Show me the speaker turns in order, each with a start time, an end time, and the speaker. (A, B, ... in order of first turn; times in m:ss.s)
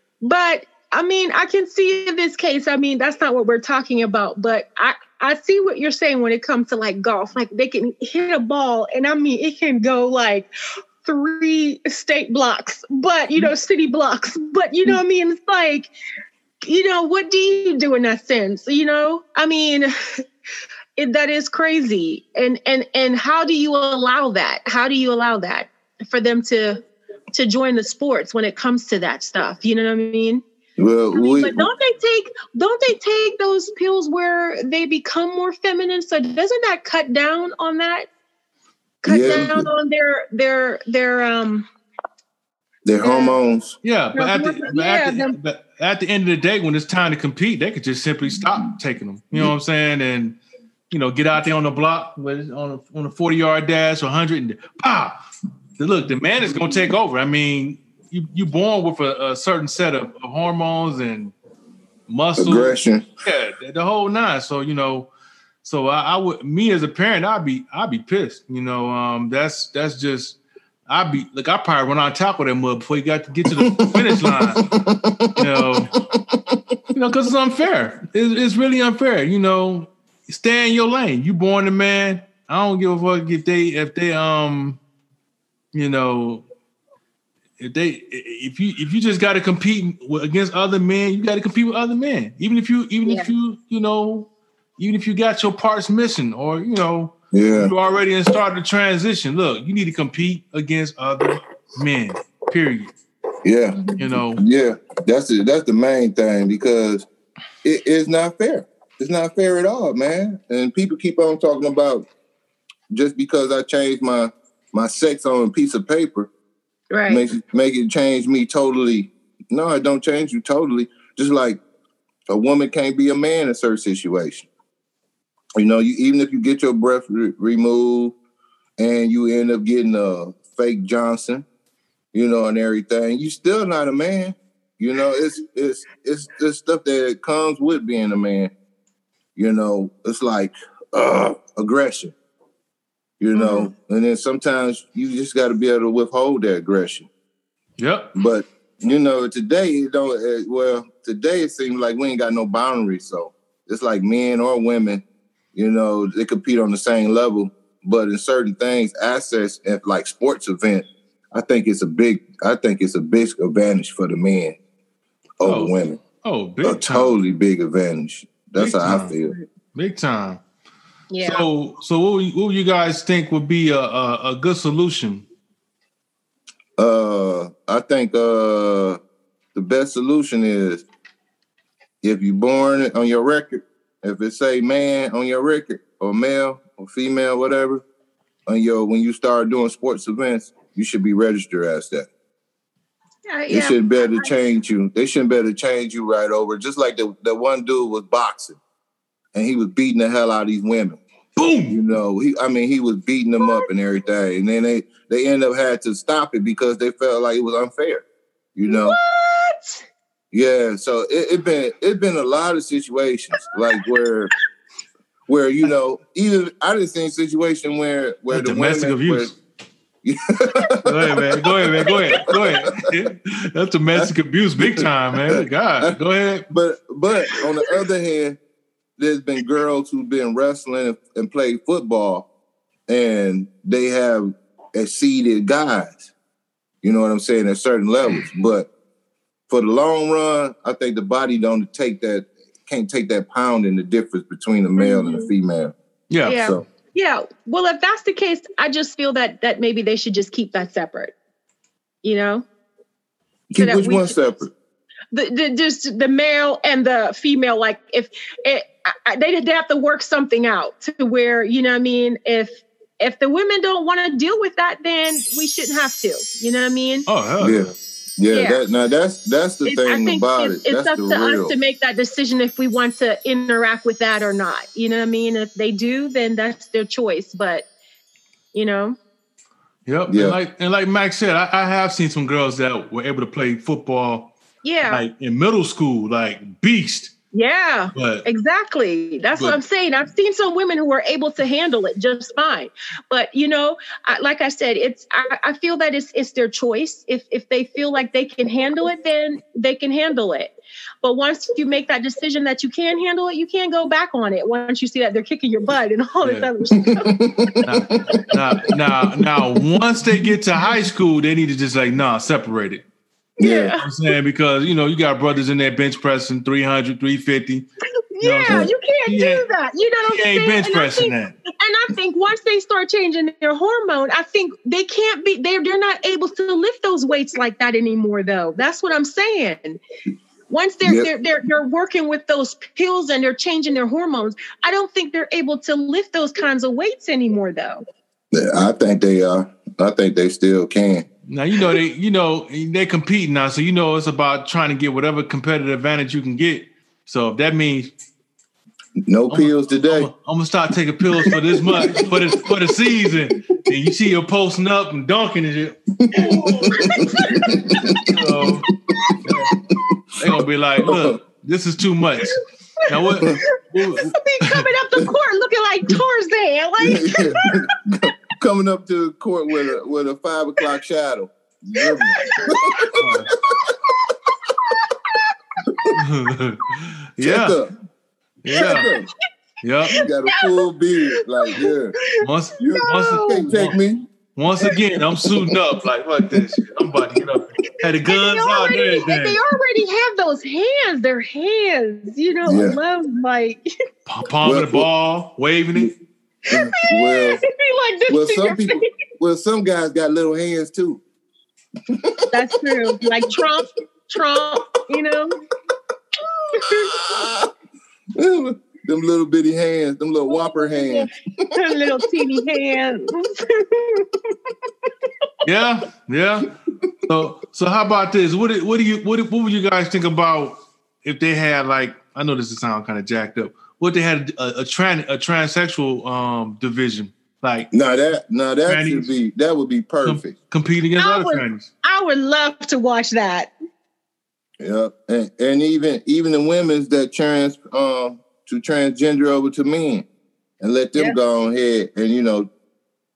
0:00.2-0:10.5 A
0:11.0-0:15.9 A
0:16.6-0:20.2 A
0:21.0-0:26.8 A
0:27.3-0:30.4 A
0:30.8-0:31.7 B
0:31.1-0:38.1 A
0:39.0-0:41.7 A
0:39.0-0:39.7 B
0:39.2-0:39.5 C
0:42.8-0:43.8 B
0:43.0-0:43.4 A
0:43.8-0:50.4 C
0:44.1-0:45.3 A
0:50.9-0:55.2 C
0:55.8-1:01.3 C
1:02.1-1:05.1 C
1:02.4-1:03.0 B
1:05.6-1:14.6 C
1:13.7-1:16.8 B
1:15.4-1:15.9 C
1:16.9-1:24.8 C
1:25.7-1:26.5 C
1:27.6-1:42.9 C
1:37.3-1:37.7 B
1:43.4-1:47.1 B
1:44.0-1:44.4 C
1:47.6-1:52.1 B
1:52.9-1:56.3 B
1:56.9-1:57.2 A
1:57.1-2:01.6 B
2:02.3-2:04.5 B
2:05.6-2:08.2 B
2:08.8-2:11.4 B
2:12.1-2:18.5 B
2:19.4-2:22.1 B
2:23.2-2:27.1 B
2:23.3-2:23.7 A
2:27.8-2:28.1 C
2:28.1-2:35.0 B
2:35.5-2:44.6 B
2:45.4-2:46.0 B
2:45.4-2:47.1 C
2:46.6-2:49.3 B
2:48.6-2:49.1 C
2:49.7-2:50.4 C
2:51.1-2:51.4 A
2:51.2-2:55.3 C
2:56.8-2:59.0 B
2:59.5-3:00.8 B
3:02.0-3:07.8 B
3:08.5-3:12.1 B
3:13.3-3:14.3 A
3:13.5-3:18.6 B
3:19.3-3:21.0 B
3:21.4-3:21.8 C
3:21.7-3:29.0 B
3:23.4-3:23.7 A
3:28.7-3:29.8 A
3:30.3-3:34.3 B
3:35.3-3:39.3 B
3:38.3-3:39.4 C
3:40.0-3:42.7 B
3:40.8-3:46.5 C
3:43.9-3:45.9 B
3:46.5-3:48.4 B
3:49.0-3:52.3 B
3:52.9-3:56.0 B
3:56.8-3:58.7 B
3:59.5-4:05.7 B
4:04.8-4:05.3 A
4:06.1-4:06.4 C
4:06.2-4:11.1 A
4:06.3-4:06.6 B
4:12.0-4:12.4 A
4:13.5-4:14.5 B
4:13.6-4:14.2 A
4:15.1-4:27.1 A
4:27.1-4:27.7 C
4:27.4-4:31.5 B
4:28.3-4:28.6 A
4:29.6-4:37.7 A
4:38.5-4:39.0 A
4:39.9-4:44.3 C
4:40.1-4:40.4 B
4:44.6-4:45.0 A
4:44.9-4:47.1 C
4:47.3-5:00.5 A
4:47.9-4:48.2 C
5:01.0-5:07.6 A
5:06.2-5:06.5 C
5:06.7-5:08.2 B
5:07.6-5:12.8 C
5:13.4-5:13.7 B
5:13.4-5:13.9 A
5:13.8-5:17.6 C
5:18.1-5:29.8 A
5:18.2-5:19.4 C
5:20.0-5:21.4 C
5:30.5-5:37.8 A
5:30.8-5:31.1 B
5:38.3-5:41.1 B
5:41.3-5:47.9 C
5:49.0-5:50.1 B
5:49.3-5:55.8 C
5:51.2-5:52.2 B
5:56.0-6:01.1 B
5:56.1-5:57.8 A
5:58.0-5:58.7 C
5:59.2-5:59.5 C
6:00.2-6:04.7 C
6:02.8-6:03.4 A
6:04.1-6:07.6 A
6:06.8-6:13.8 B
6:11.8-6:12.9 A
6:12.9-6:13.3 C
6:14.0-6:15.3 A
6:15.6-6:15.9 B
6:15.9-6:17.6 C
6:17.2-6:17.7 B
6:18.4-6:18.9 C
6:18.5-6:19.1 B
6:18.5-6:18.9 A
6:19.6-6:20.0 C
6:19.9-6:21.9 B
6:20.0-6:23.5 A
6:22.2-6:23.8 C
6:22.6-6:24.1 B
6:24.3-6:29.4 C
6:28.1-6:33.6 A
6:32.4-6:32.8 B
6:34.0-6:35.9 C
6:34.4-6:34.8 B
6:36.4-6:38.9 A
6:36.5-6:37.4 B
6:38.1-6:41.0 B
6:41.9-6:43.5 B
6:42.3-6:45.4 A
6:46.5-6:47.0 A
6:46.5-6:47.5 B
6:48.1-6:52.2 B
6:50.3-6:54.2 A
6:55.4-6:56.5 C
6:57.1-7:07.7 C
7:07.7-7:10.4 B
7:08.7-7:09.1 C
7:10.0-7:11.7 C
7:11.0-7:13.5 A
7:14.6-7:20.0 B
7:20.6-7:22.5 B